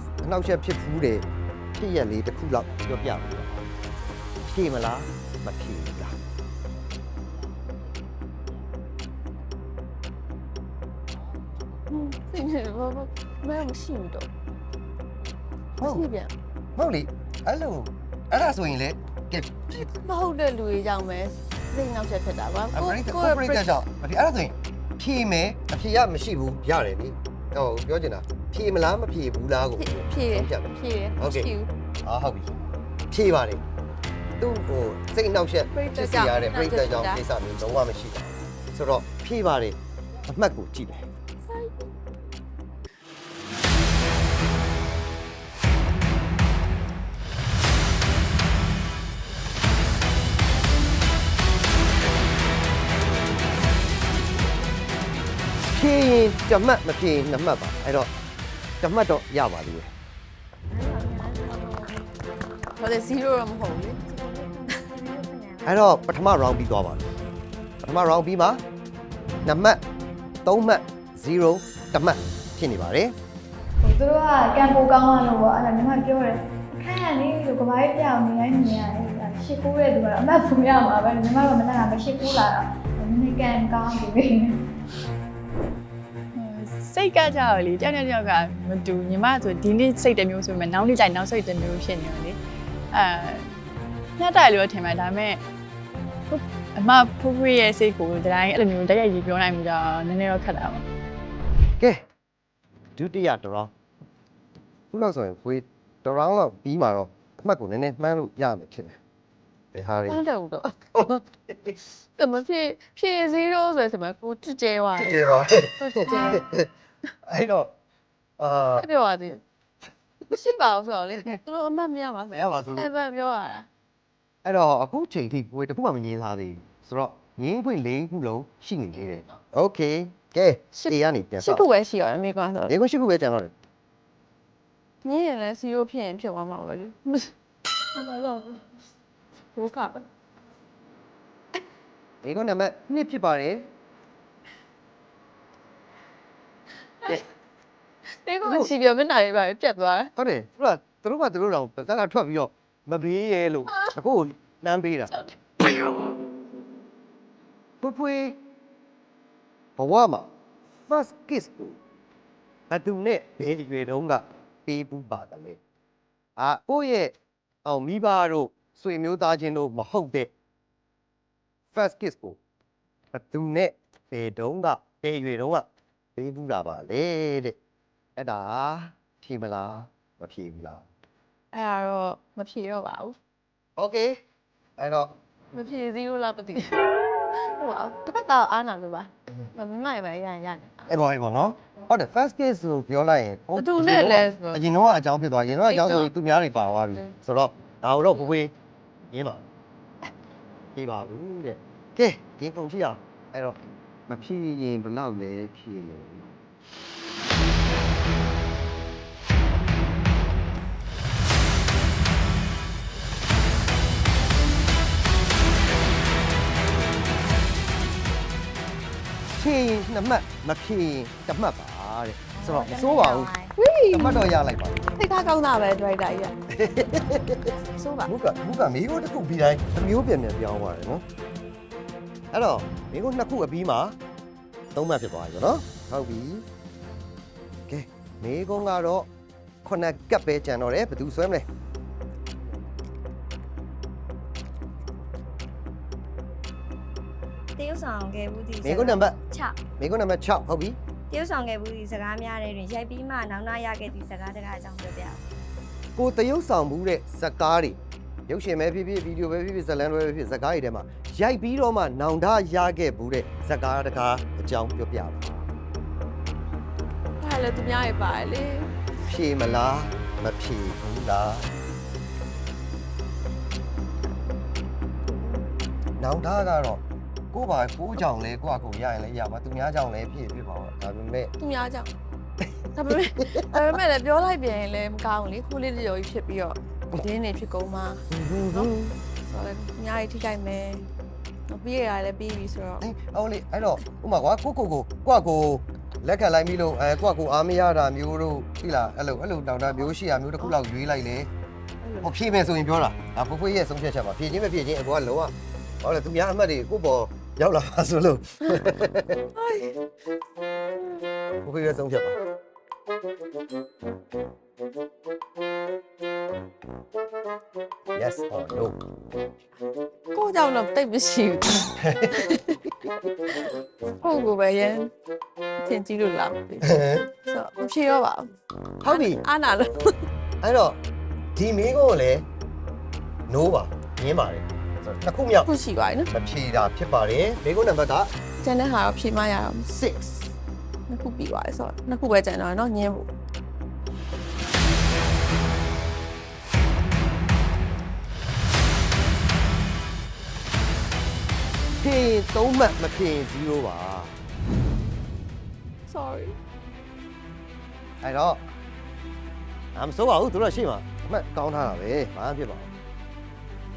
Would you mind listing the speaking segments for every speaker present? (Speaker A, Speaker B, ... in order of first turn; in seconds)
Speaker A: 0.2-3.5, 4.4-6.2, 15.8-16.1, 16.8-19.8, 22.7-31.5, 32.0-32.5, 33.1-33.6, 34.4-41.1, 55.7-58.1, 58.8-59.9, 65.6-67.1, 67.8-68.6, 69.4-69.8, 70.4-73.2, 103.0-103.7, 104.9-109.0, 109.7-110.2, 110.9-111.7, 115.0-116.7, 117.2-117.7, 118.4-118.9, 122.3-122.9, 124.4-131.7, 132.7-133.5, 142.2-143.7, 148.4-148.7, 150.2-155.1, 157.8-158.4, 159.8-160.3, 160.9-161.8, 162.7-165.6, 166.4-167.1, 167.6-170.3, 171.7-172.4, 173.1-177.6, 178.2-180.8, 183.8-184.2, 184.8-185.1, 190.9-198.5, 199.1-199.4, 200.7-203.6, 204.1-206.3, 219.3-223.3, 223.9-224.8, 226.5-227.5, 228.1-231.0, 232.3-234.0, 234.7-236.4, 237.7-239.1, 239.6-241.5, 248.6-249.2, 249.8-250.8, 255.9-265.4, 269.1-271.5, 276.0-281.3, 282.9-283.4, 288.1-288.9, 292.8-301.3, 302.0-309.2, 311.4-312.2, 317.9-318.8, 321.8-322.3, 326.6-327.1, 328.8-329.2, 330.4-330.8, 331.3-332.2, 333.3-335.5, 336.1-338.1, 339.7-340.3, 351.8-354.2, 358.0-358.4, 359.7-362.7
Speaker B: 11.9-14.3, 15.8-16.3, 19.7-23.6, 29.8-31.7, 35.7-37.2, 41.5-41.8, 62.8-64.0, 110.1-110.8, 112.2-115.2, 115.8-116.4, 118.8-119.4, 120.3-123.7, 130.7-132.7, 135.0-137.3, 137.9-138.6, 139.5-140.0, 148.2-150.1, 155.2-155.7, 181.5-183.1, 185.5-186.8, 187.4-190.8, 193.5-194.6, 195.7-196.1, 222.6-222.8, 223.6-224.3, 224.9-226.3, 227.7-228.1, 267.2-268.7, 281.4-281.9, 282.7-288.7, 289.2-290.9, 291.5-292.8, 301.8-302.1, 309.3-309.7, 320.1-322.6, 324.0-324.9, 325.6-328.3, 328.8-329.9, 335.4-336.1, 338.4-339.7, 340.9-343.1, 355.9-356.3
Speaker C: 60.7-62.7, 64.0-66.0, 222.4-223.5, 247.6-249.6, 251.1-255.2
Speaker D: 73.8-84.6
Speaker E: 86.3-92.4, 92.9-93.5, 94.2-95.4, 96.3-100.8